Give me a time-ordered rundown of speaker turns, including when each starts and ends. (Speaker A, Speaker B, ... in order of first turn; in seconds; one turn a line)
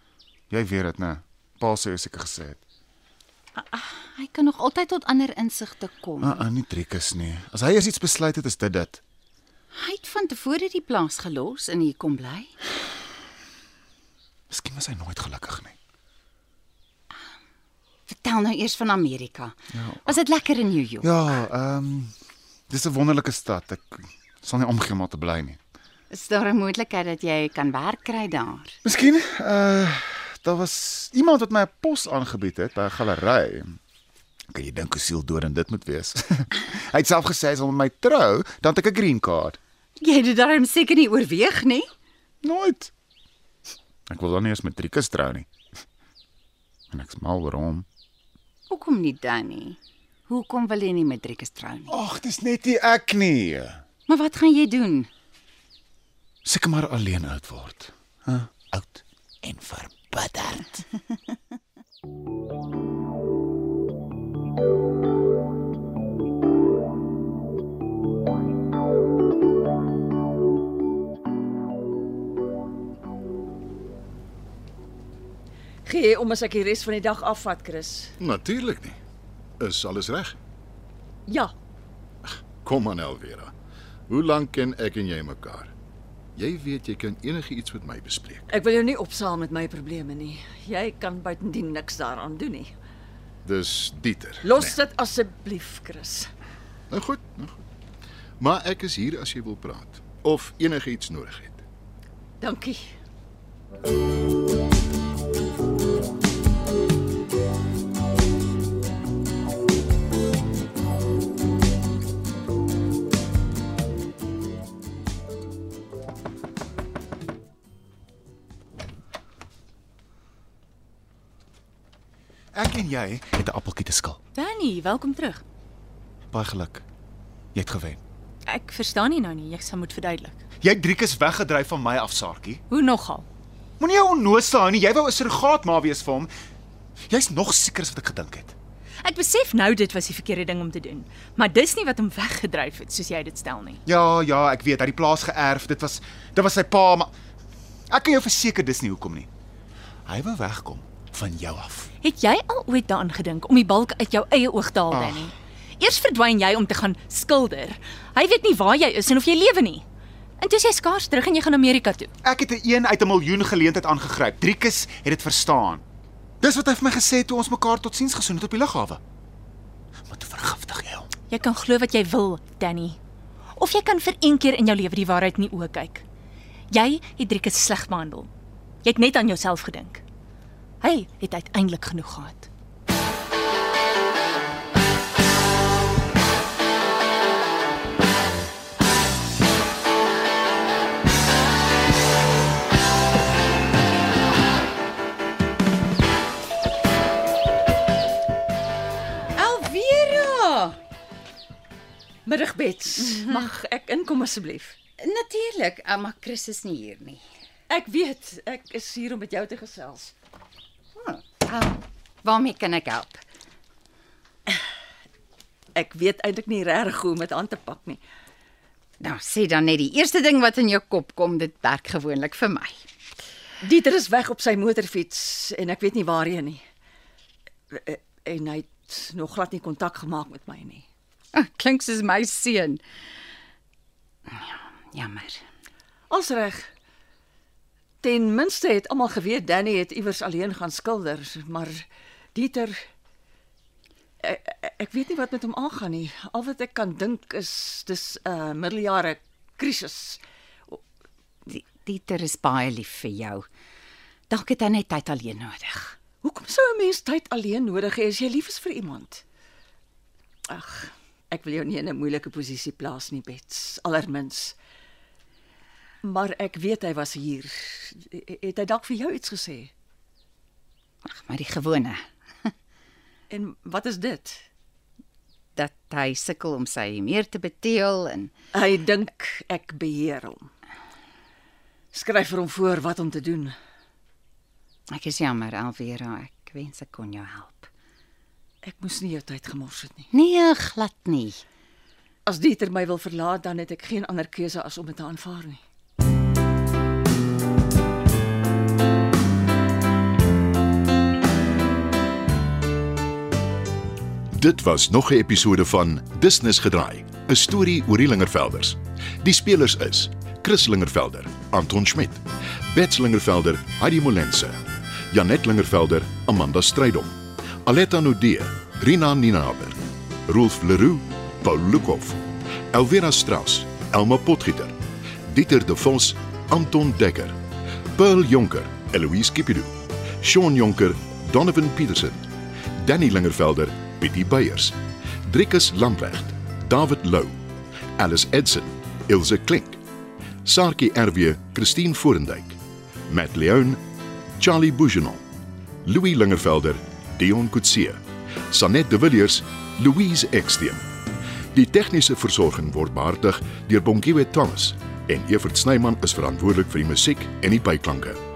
Speaker A: 0.5-2.6
Speaker B: 3.6-6.4
Speaker A: 6.2-9.0
Speaker B: 9.7-12.6
Speaker A: 14.5-15.8
Speaker B: 18.1-21.1
Speaker A: 19.7-20.1
Speaker A: 21.0-22.1
Speaker A: 22.7-25.6
Speaker B: 26.1-28.8
Speaker A: 28.8-33.8
Speaker A: 34.5-39.6
Speaker B: 40.0-41.9
Speaker A: 42.4-42.9
Speaker A: 44.1-45.5
Speaker A: 46.9-47.9
Speaker B: 48.7-51.9
Speaker A: 51.9-53.8
Speaker B: 54.1-55.1
Speaker A: 56.5-60.7
Speaker C: 75.9-78.1
Speaker D: 78.2-79.0
Speaker D: 79.6-80.4
Speaker C: 81.3-81.5
Speaker D: 82.2-83.5
Speaker D: 84.1-85.7
Speaker D: 86.3-88.5
Speaker C: 88.5-92.7
Speaker D: 93.4-94.8
Speaker C: 94.4-96.3
Speaker D: 96.9-97.6
Speaker D: 98.4-101.7
Speaker C: 102.4-102.9
Speaker A: 122.5-124.2
Speaker E: 124.3-125.4
Speaker A: 126.3-126.8
Speaker A: 127.5-128.0
Speaker E: 128.5-130.4
Speaker A: 130.6-132.6
Speaker E: 132.7-133.3
Speaker A: 133.8-136.3
Speaker A: 137.1-138.6
Speaker E: 139.0-143.8
Speaker A: 143.8-147.1
Speaker A: 147.9-149.3
Speaker A: 150.1-151.9
Speaker E: 152.0-159.8
Speaker A: 154.9-155.3
Speaker E: 160.4-162.1
Speaker A: 162.2-165.8
Speaker A: 166.4-169.0
Speaker A: 170.1-171.1
Speaker E: 171.3-173.0
Speaker E: 173.6-176.0
Speaker E: 176.7-178.3
Speaker E: 178.8-180.0
Speaker E: 180.8-182.5
Speaker B: 199.3-200.8
Speaker C: 202.3-204.8
Speaker B: 203.1-203.4
Speaker B: 205.0-207.2
Speaker C: 207.7-210.1
Speaker B: 211.0-213.2
Speaker C: 215.8-218.0
Speaker B: 219.0-222.8
Speaker C: 223.6-226.6
Speaker C: 227.7-230.9
Speaker B: 231.3-232.8
Speaker B: 234.3-235.4
Speaker C: 236.1-236.7
Speaker C: 238.0-242.8
Speaker C: 244.2-250.8
Speaker B: 251.5-253.4
Speaker B: 254.3-256.0
Speaker C: 256.2-259.2
Speaker C: 260.5-264.6
Speaker C: 266.0-269.7
Speaker B: 271.0-272.5
Speaker C: 273.3-274.4
Speaker B: 275.6-278.3
Speaker C: 278.5-280.5
Speaker C: 281.9-283.6
Speaker B: 284.9-287.7
Speaker C: 288.6-290.1
Speaker B: 290.1-291.4
Speaker C: 292.3-295.6
Speaker D: 304.3-314.6
Speaker D: 315.1-327.4
Speaker D: 327.9-332.2
Speaker D: 332.8-337.4
Speaker D: 338.0-339.8
Speaker D: 340.4-343.8
Speaker D: 344.4-345.2
Speaker D: 345.9-350.9
Speaker D: 351.5-358.2